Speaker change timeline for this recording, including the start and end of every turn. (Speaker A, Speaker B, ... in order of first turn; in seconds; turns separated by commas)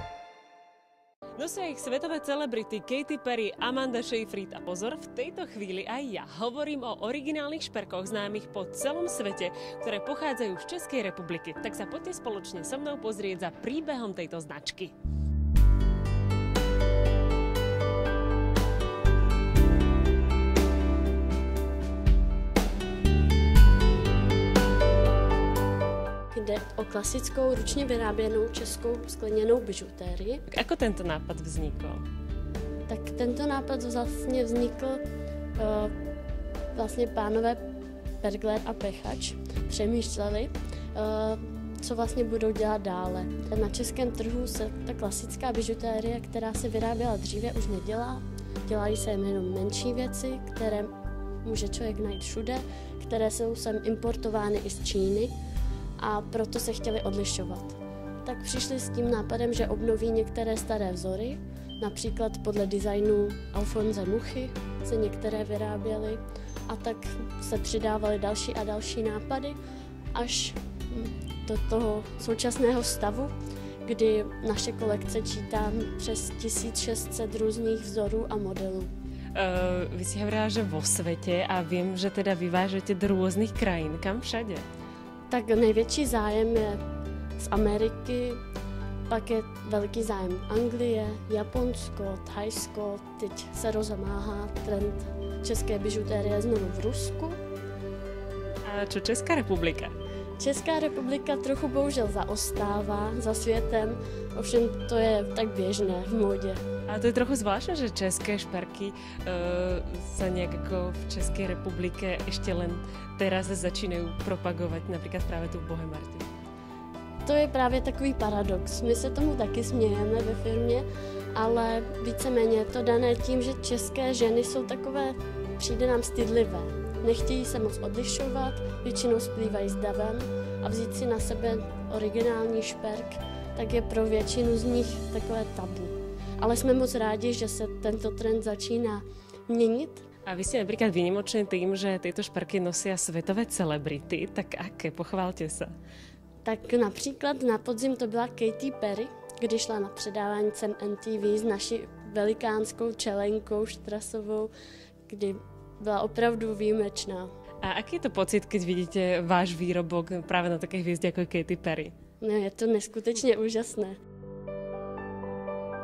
Speaker A: 1.4-14.9, Speaker B: 26.3-30.4, Speaker A: 30.5-32.0, Speaker B: 32.9-35.0, Speaker B: 35.6-35.9, Speaker B: 36.7-37.6, Speaker B: 38.2-50.9, Speaker B: 51.4-55.3, Speaker B: 56.0-69.6, Speaker B: 70.1-73.3, Speaker B: 73.8-78.9, Speaker A: 79.3-84.6, Speaker B: 85.3-86.8, Speaker B: 87.4-88.4, Speaker B: 89.1-97.4, Speaker A: 98.7-99.9, Speaker B: 100.4-106.6, Speaker A: 106.9-116.3, Speaker B: 117.2-140.0, Speaker A: 140.3-145.7, Speaker B: 146.4-154.5, Speaker B: 155.1-157.3, Speaker A: 157.6-161.9, Speaker B: 162.2-164.0